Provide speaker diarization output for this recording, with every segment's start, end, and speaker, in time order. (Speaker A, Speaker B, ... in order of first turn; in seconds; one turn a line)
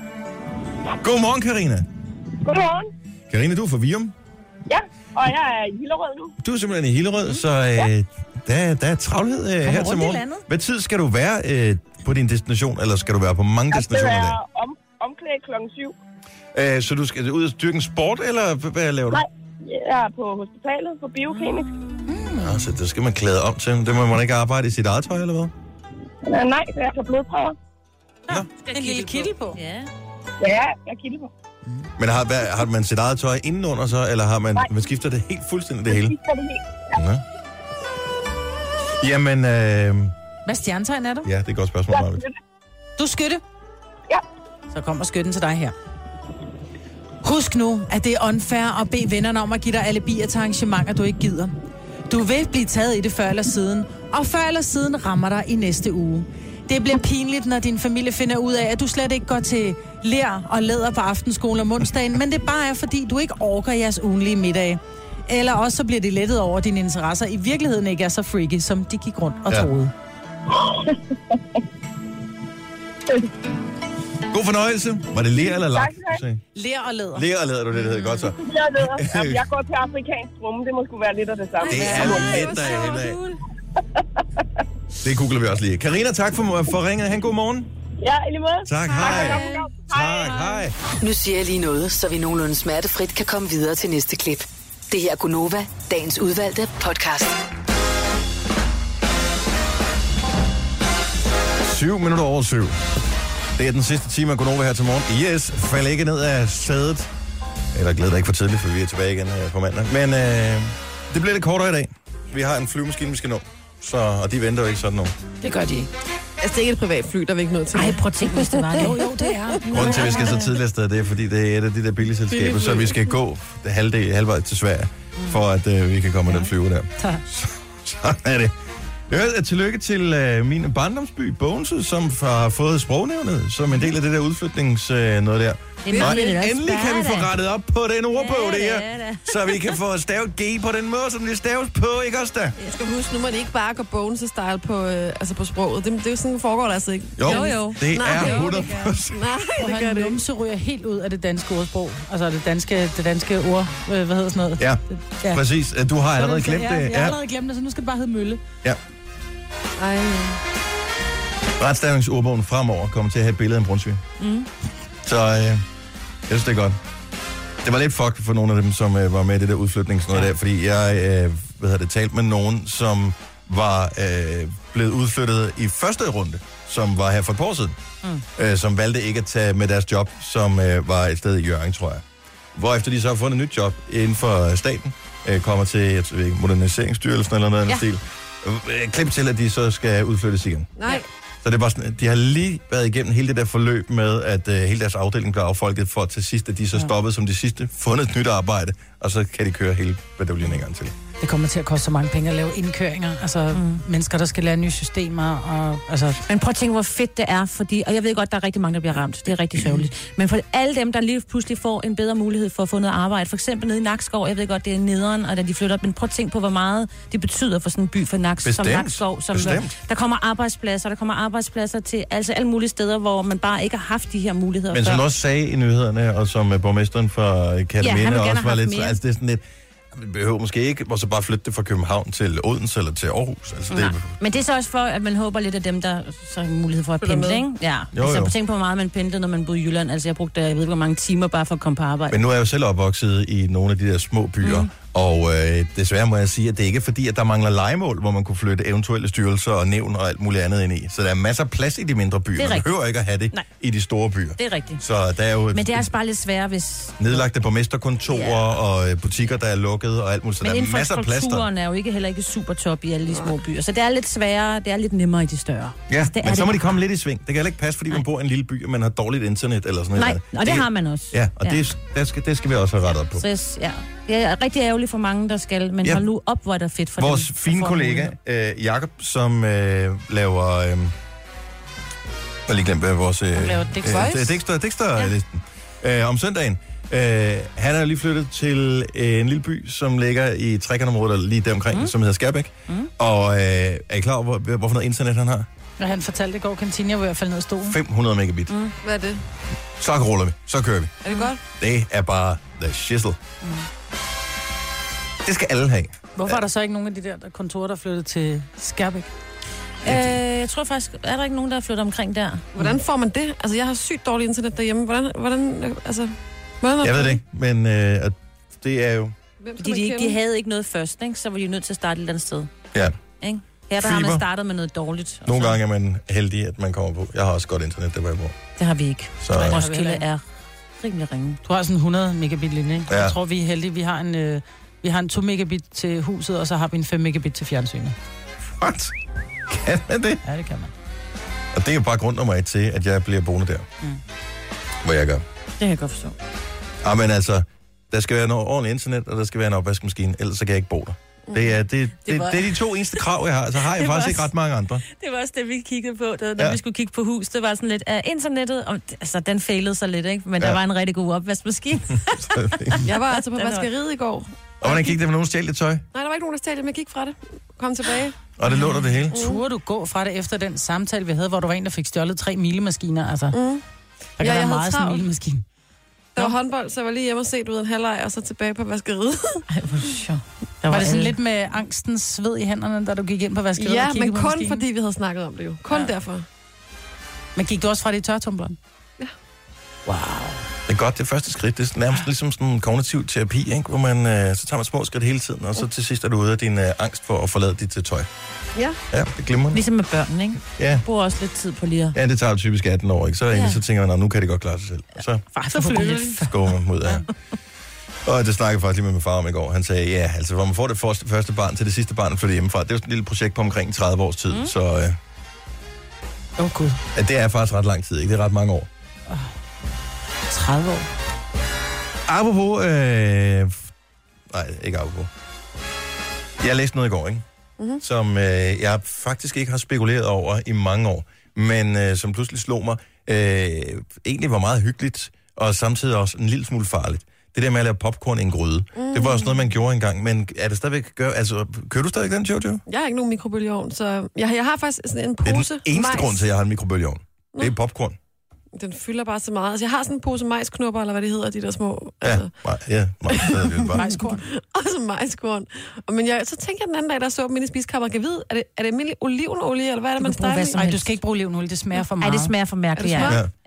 Speaker A: 1.0-1.9
Speaker B: 2.4-2.9
Speaker A: 3.3-4.1
Speaker B: 4.7-6.3
Speaker A: 6.4-14.4
Speaker C: 9.6-10.4
Speaker B: 13.7-16.0
Speaker A: 16.5-19.2
Speaker B: 19.1-21.7
Speaker D: 21.4-21.9
Speaker C: 22.1-22.7
Speaker A: 22.4-25.5
Speaker B: 26.3-27.6
Speaker C: 28.3-29.6
Speaker D: 28.6-29.9
Speaker B: 30.4-31.3
Speaker A: 32.0-36.2
Speaker B: 35.9-37.0
Speaker A: 36.9-37.2
Speaker A: 39.0-40.1
Speaker C: 40.5-41.3
Speaker A: 41.2-42.2
Speaker B: 41.9-42.4
Speaker C: 43.0-43.4
Speaker C: 44.7-45.7
Speaker C: 47.2-51.5
Speaker C: 52.1-69.9
Speaker B: 70.5-71.4
Speaker A: 74.3-76.4
Speaker B: 75.5-76.2
Speaker C: 76.5-78.3
Speaker A: 77.2-79.5
Speaker B: 78.4-82.6
Speaker A: 81.7-83.2
Speaker E: 81.7-83.2
Speaker C: 81.7-82.5
Speaker A: 85.0-87.7
Speaker B: 88.0-90.7
Speaker A: 88.7-90.8
Speaker E: 88.9-89.7
Speaker F: 91.0-97.3
Speaker A: 101.6-102.8
Speaker A: 103.6-107.1
Speaker A: 107.7-115.1
Speaker C: 115.4-115.9
Speaker E: 116.4-120.3
Speaker D: 117.7-119.1
Speaker C: 118.8-120.1
Speaker D: 119.6-120.4
Speaker A: 119.7-128.5
Speaker E: 122.3-123.1
Speaker D: 125.2-125.4
Speaker A: 129.1-142.6
Speaker D: 135.8-137.3
Speaker E: 135.9-136.4
Speaker D: 138.1-139.8
Speaker E: 142.7-150.2
Speaker A: 147.2-149.3
Speaker D: 147.3-148.9
Speaker C: 149.6-155.4
Speaker A: 154.6-157.2
Speaker C: 156.2-158.4
Speaker E: 159.8-160.4
Speaker A: 161.6-164.0
Speaker D: 164.2-164.5
Speaker A: 165.1-165.6
Speaker A: 166.3-166.8
Speaker A: 167.6-177.8
Speaker A: 178.3-182.0
Speaker A: 182.6-190.7
Speaker E: 190.8-191.1
Speaker A: 191.4-200.9
Speaker C: 201.2-206.2
Speaker D: 203.5-203.8
Speaker D: 206.2-225.0
Speaker A: 218.4-219.8
Speaker A: 224.7-234.1
Speaker D: 227.8-229.0
Speaker D: 233.7-242.2
Speaker E: 237.0-237.4
Speaker A: 237.9-238.3
Speaker A: 242.1-255.9
Speaker D: 244.4-244.7
Speaker D: 252.4-252.7
Speaker D: 254.4-254.8
Speaker D: 255.5-257.2
Speaker A: 257.0-261.5
Speaker D: 258.1-258.5
Speaker D: 260.4-266.8
Speaker A: 265.9-273.2
Speaker D: 269.9-271.7
Speaker D: 273.2-278.1
Speaker A: 277.0-280.9
Speaker A: 282.5-295.5
Speaker C: 283.4-284.2
Speaker E: 283.9-284.3
Speaker C: 295.8-297.8
Speaker A: 297.6-298.5
Speaker D: 298.5-298.8
Speaker E: 298.8-299.2
Speaker A: 299.8-300.9
Speaker E: 301.0-301.4
Speaker A: 301.6-303.2
Speaker D: 303.4-303.7
Speaker A: 305.2-306.4
Speaker C: 306.2-309.1
Speaker D: 309.8-312.5
Speaker A: 309.9-310.2
Speaker E: 312.5-317.2
Speaker A: 316.8-319.1
Speaker E: 319.4-320.2
Speaker D: 319.6-322.5
Speaker D: 323.2-325.6
Speaker A: 323.8-324.2
Speaker A: 325.2-328.4
Speaker D: 328.6-330.2
Speaker A: 329.2-329.6
Speaker C: 329.4-330.0
Speaker D: 330.8-331.4
Speaker C: 331.4-338.0
Speaker A: 332.9-333.2
Speaker A: 338.6-340.2
Speaker C: 340.2-340.7
Speaker A: 341.5-343.7
Speaker A: 344.8-345.2
Speaker D: 345.6-346.1
Speaker A: 346.8-354.8
Speaker D: 352.1-353.0
Speaker D: 353.6-354.3
Speaker D: 354.8-363.7
Speaker A: 362.1-362.8
Speaker E: 362.8-364.9
Speaker A: 364.6-365.9
Speaker E: 365.9-368.4
Speaker A: 368.4-369.2
Speaker D: 368.5-368.8
Speaker C: 368.5-373.4
Speaker E: 369.1-369.4
Speaker E: 373.3-373.6
Speaker C: 374.2-375.4
Speaker E: 374.2-375.1
Speaker E: 376.1-379.5
Speaker D: 379.5-381.1
Speaker C: 380.7-384.6
Speaker E: 383.6-386.3
Speaker C: 387.4-388.6
Speaker C: 389.9-390.4
Speaker A: 390.7-398.1
Speaker A: 398.9-399.6
Speaker D: 399.5-402.0
Speaker A: 400.6-400.9
Speaker A: 401.9-405.2
Speaker D: 403.3-403.6
Speaker D: 405.3-406.4
Speaker C: 405.5-406.3
Speaker A: 406.3-407.1
Speaker A: 408.1-415.0
Speaker C: 416.4-416.8
Speaker A: 416.9-418.7
Speaker C: 420.3-420.9
Speaker A: 422.1-423.7
Speaker A: 424.3-425.1
Speaker A: 426.4-427.2
Speaker A: 427.8-442.6
Speaker E: 438.8-439.4
Speaker E: 442.7-446.2
Speaker A: 445.2-448.0
Speaker E: 448.6-452.3
Speaker A: 452.0-453.9
Speaker E: 453.1-460.6
Speaker C: 453.7-454.2
Speaker D: 460.0-460.9
Speaker C: 460.5-462.3
Speaker D: 462.0-463.3
Speaker E: 462.8-463.2